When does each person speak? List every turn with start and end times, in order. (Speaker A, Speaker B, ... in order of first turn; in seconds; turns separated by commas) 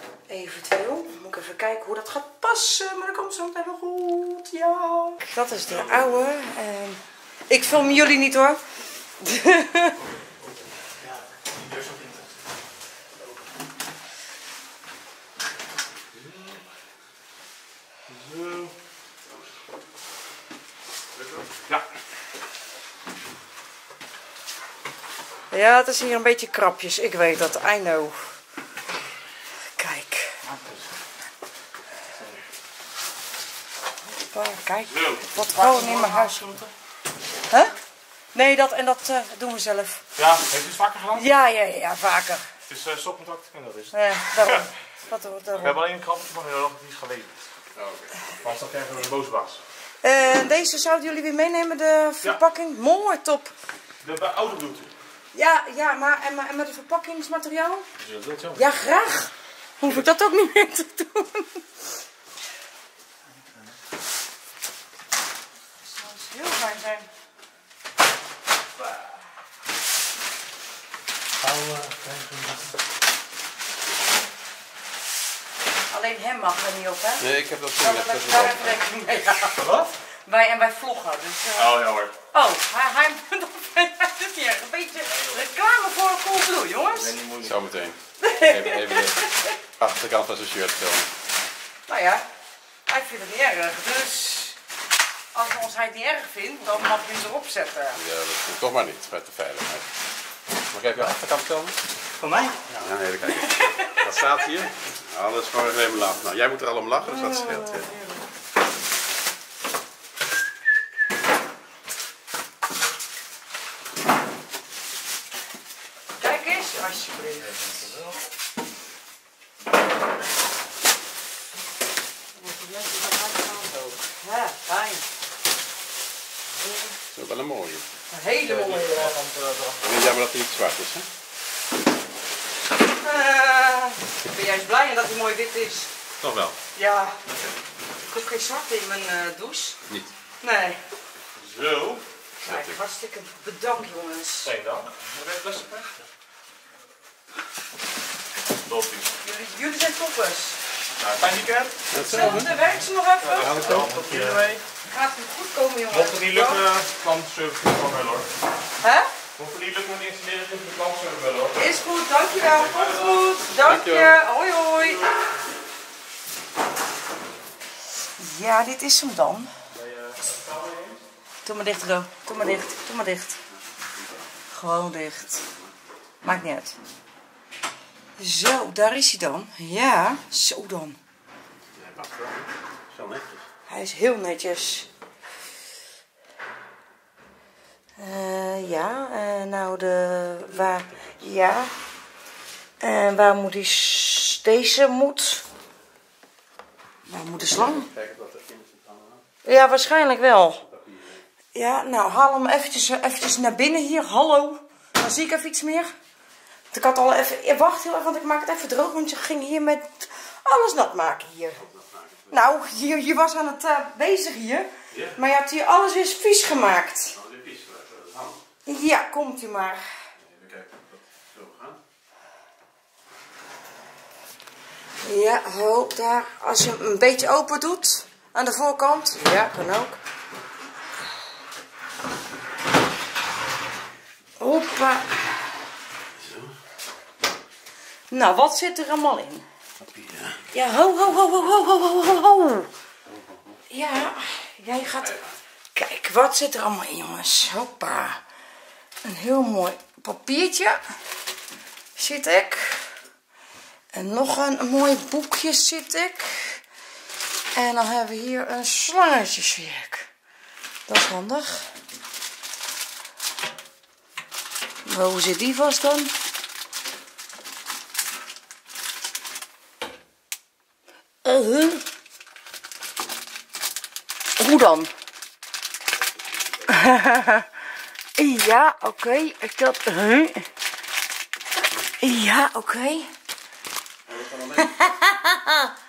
Speaker A: 0.3-8.6, Speaker A: 9.2-10.0, Speaker B: 11.7-12.1, Speaker B: 18.1-18.7, Speaker A: 25.5-28.4, Speaker A: 29.8-30.4, Speaker B: 30.5-30.8, Speaker A: 34.1-36.5, Speaker B: 35.0-36.7, Speaker A: 38.3-40.0, Speaker B: 40.2-41.2, Speaker A: 41.1-42.5, Speaker B: 42.7-44.6, Speaker A: 43.9-45.8, Speaker B: 45.6-47.4, Speaker C: 47.7-48.5, Speaker B: 48.4-49.6, Speaker A: 50.0-53.5, Speaker B: 54.0-54.9, Speaker A: 55.3-57.9, Speaker B: 58.0-58.6, Speaker A: 58.5-61.6, Speaker A: 65.8-67.1, Speaker B: 71.4-72.7, Speaker A: 75.9-77.3, Speaker C: 77.2-79.5, Speaker A: 77.8-79.7, Speaker B: 79.6-79.9, Speaker A: 80.2-87.2, Speaker B: 81.6-82.1, Speaker B: 86.9-87.6, Speaker C: 87.4-91.1, Speaker A: 88.2-89.5, Speaker A: 91.9-92.2, Speaker A: 92.9-94.6, Speaker A: 95.3-98.0, Speaker C: 97.9-99.9, Speaker C: 100.7-101.2, Speaker B: 101.0-102.7, Speaker C: 102.7-107.9, Speaker A: 103.4-104.0, Speaker A: 107.0-108.2, Speaker A: 116.2-117.9, Speaker B: 117.5-118.1, Speaker A: 122.4-125.0, Speaker C: 127.1-127.8, Speaker A: 128.1-129.1, Speaker B: 128.4-129.8, Speaker C: 129.8-131.1, Speaker A: 133.0-135.9, Speaker C: 136.2-136.6, Speaker A: 136.7-137.2, Speaker A: 138.1-139.8, Speaker A: 140.4-140.8, Speaker B: 141.4-142.0, Speaker A: 142.4-144.5, Speaker C: 142.4-142.8, Speaker B: 144.4-146.0, Speaker B: 148.7-149.1, Speaker A: 149.2-150.6, Speaker B: 151.0-152.4, Speaker C: 151.9-152.6, Speaker A: 151.9-154.3, Speaker B: 153.2-154.6, Speaker C: 153.3-154.2, Speaker A: 154.8-156.6, Speaker B: 155.9-158.3, Speaker A: 158.8-159.1, Speaker B: 159.3-161.6, Speaker A: 161.5-165.1, Speaker B: 162.6-163.1, Speaker C: 163.6-164.2, Speaker A: 168.2-169.5, Speaker B: 169.8-171.0, Speaker A: 171.4-173.4, Speaker C: 172.4-172.7, Speaker C: 173.9-174.2, Speaker A: 174.5-175.5, Speaker A: 176.2-176.8, Speaker A: 178.2-181.0, Speaker C: 181.7-183.4, Speaker A: 183.7-184.9, Speaker A: 188.0-191.7, Speaker C: 190.6-191.2, Speaker A: 192.8-195.4, Speaker A: 197.1-197.9, Speaker C: 197.3-199.2, Speaker A: 199.4-200.6, Speaker C: 200.6-201.2, Speaker A: 201.5-205.9, Speaker A: 206.7-211.6, Speaker C: 211.6-212.4, Speaker A: 212.3-217.2, Speaker C: 214.9-215.2, Speaker C: 217.1-218.4, Speaker A: 218.7-219.8, Speaker C: 220.2-221.8, Speaker A: 225.0-230.0, Speaker A: 234.4-235.2, Speaker C: 236.1-236.5, Speaker A: 238.1-239.4, Speaker C: 239.8-240.5, Speaker A: 240.5-242.7, Speaker C: 243.1-243.6, Speaker A: 243.7-245.1, Speaker C: 244.8-245.4, Speaker A: 245.7-248.2, Speaker A: 249.0-250.8, Speaker A: 252.0-252.9, Speaker A: 253.9-256.6, Speaker A: 257.5-260.1, Speaker A: 260.9-261.7, Speaker A: 264.9-266.1, Speaker A: 271.2-271.8, Speaker A: 274.4-274.9, Speaker C: 276.4-276.8, Speaker A: 276.7-277.5, Speaker A: 278.2-280.4, Speaker A: 282.0-283.1, Speaker C: 284.1-284.9, Speaker A: 284.6-285.7